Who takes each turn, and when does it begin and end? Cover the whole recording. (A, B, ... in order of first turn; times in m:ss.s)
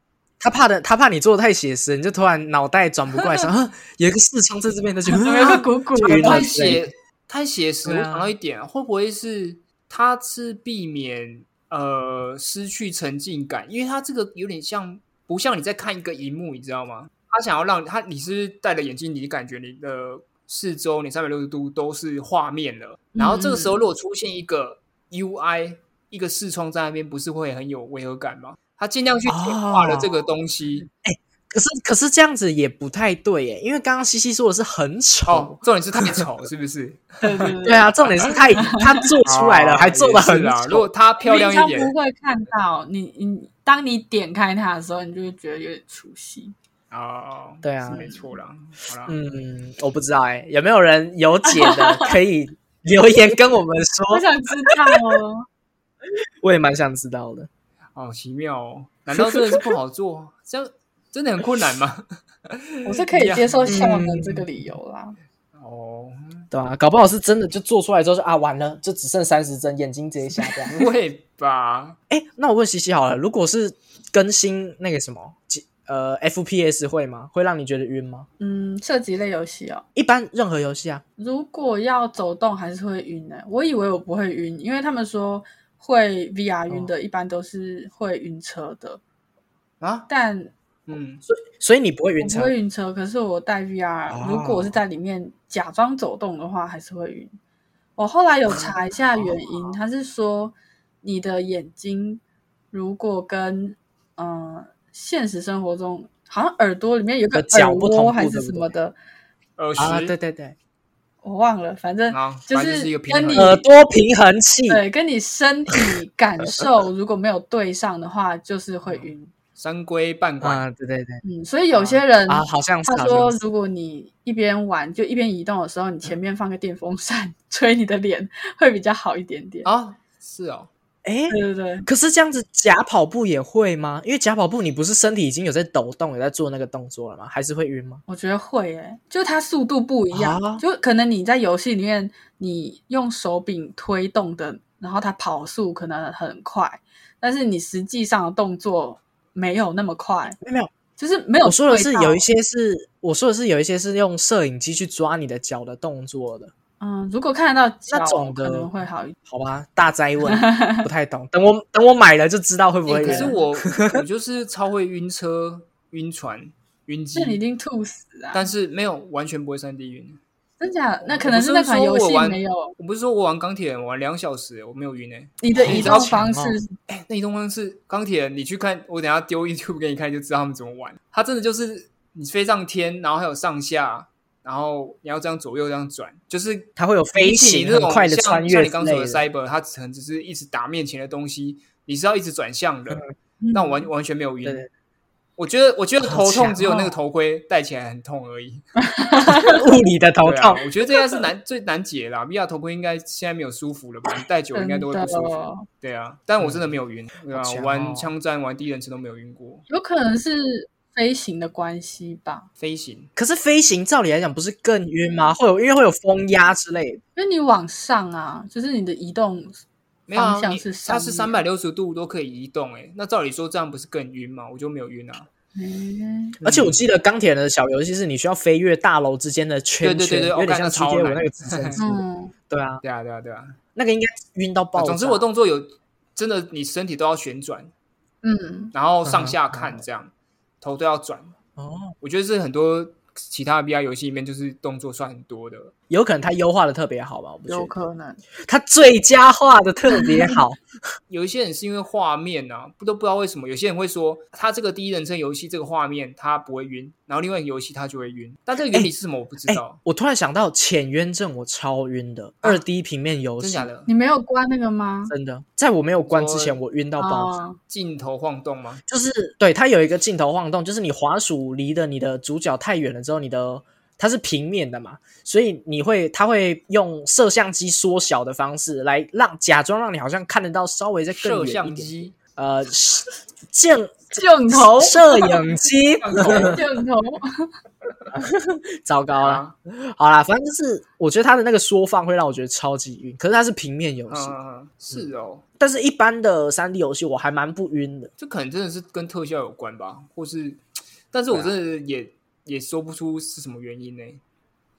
0:00.4-0:06.9 A
0:05.1-0:06.8 B
0:06.0-0:30.9 C
0:07.8-0:08.3 A
0:23.1-0:23.8 B
0:29.2-0:30.1 A
0:31.0-0:36.3 A
0:35.3-0:37.5 C
0:37.2-0:38.0 B
0:37.6-0:40.9 A
0:38.6-0:39.1 B
0:39.2-0:41.9 C
0:41.2-0:46.5 B
0:46.9-0:49.2 C
0:47.6-0:48.1 A
0:47.9-0:48.2 B
0:49.1-0:54.7 A
0:51.6-0:52.1 B
0:54.1-0:55.4 B
0:56.4-0:57.5 A
0:57.9-1:03.8 C
0:59.1-0:59.7 A
1:02.8-1:05.2 B
1:03.7-1:04.4 A
1:05.5-1:06.5 C
1:06.5-1:10.8 A
1:10.7-1:12.0 C
1:12.1-1:18.3 A
1:18.4-1:19.8 B
1:19.9-1:21.0 A
1:21.2-1:29.0 B
1:29.8-1:30.1 C
1:30.1-1:30.5 B
1:30.9-1:31.2 C
1:31.3-1:32.5 A
1:32.2-1:37.3 B
1:34.1-1:34.8 A
1:38.0-1:49.0 B
1:38.5-1:39.3 A
1:47.3-1:48.7 A
1:49.6-1:50.1 C
1:49.8-1:50.5 A
1:51.2-1:53.6 B
1:52.1-1:53.6 C
1:53.3-1:54.8 A
1:54.7-1:59.3 B
1:58.9-2:00.6 C
2:00.4-2:01.2 A
2:01.2-2:09.7 B
2:01.7-2:02.0 C
2:02.3-2:03.4 A
2:09.6-2:10.7 C
2:11.0-2:18.0 A
2:11.3-2:11.8 B
2:18.1-2:30.4 B
2:20.1-2:20.6 A
2:30.4-2:30.7 A
2:31.0-2:32.2 B
2:31.4-2:36.5 A
2:36.8-2:39.2 B
2:37.9-2:38.7 A
2:39.3-2:44.0 A
2:40.3-2:40.8 B
2:42.9-2:47.4 C
2:42.9-2:43.4 B
2:47.1-2:48.5 B
2:48.3-2:50.2 C
2:50.6-2:52.7 B
2:51.0-2:56.2 C
2:55.4-2:56.7 B
2:55.5-2:56.6 A
2:56.9-3:14.6 C
3:06.8-3:09.2 A
3:13.4-3:13.9 B
3:15.4-3:18.7 C
3:16.0-3:17.0 A
3:18.8-3:19.6 B
3:19.4-3:20.6 A
3:20.2-3:29.6 C
3:24.5-3:25.6 B
3:27.3-3:28.1 A
3:29.7-3:32.5 B
3:32.6-3:33.1 C
3:33.2-3:37.0 A
3:37.2-3:41.4 B
3:40.1-3:45.3 C
3:45.6-3:46.4 B
3:46.4-3:52.8 A
3:46.4-3:46.8 C
3:49.8-3:51.8 C
3:51.8-3:52.3 B
3:52.8-3:53.6 C
3:53.7-3:55.2 A
3:54.8-3:57.7 C
3:58.2-3:58.7 B
3:58.7-4:01.3 C
3:59.0-3:59.8 A
4:01.6-4:01.9 A
4:02.0-4:05.7 C
4:05.9-4:07.7 A
4:07.5-4:08.2 B
4:08.4-4:10.6 A
4:09.9-4:10.4 B
4:11.1-4:19.8 C
4:18.6-4:18.9 A
4:19.5-4:23.7 A
4:23.4-4:23.9 C
4:23.9-4:25.1 B
4:25.1-4:27.4 A
4:26.0-4:26.6 C
4:27.0-4:27.6 B
4:27.7-4:28.8 C
4:28.9-4:46.6 A
4:41.1-4:42.2 C
4:44.1-4:45.4 B
4:46.0-4:46.6 C
4:46.2-4:47.5 B
4:48.1-4:54.3 A
4:49.2-4:49.5 C
4:54.1-4:55.4 C
4:55.6-4:58.1 A
4:58.2-5:00.6 C
5:01.1-5:04.2 C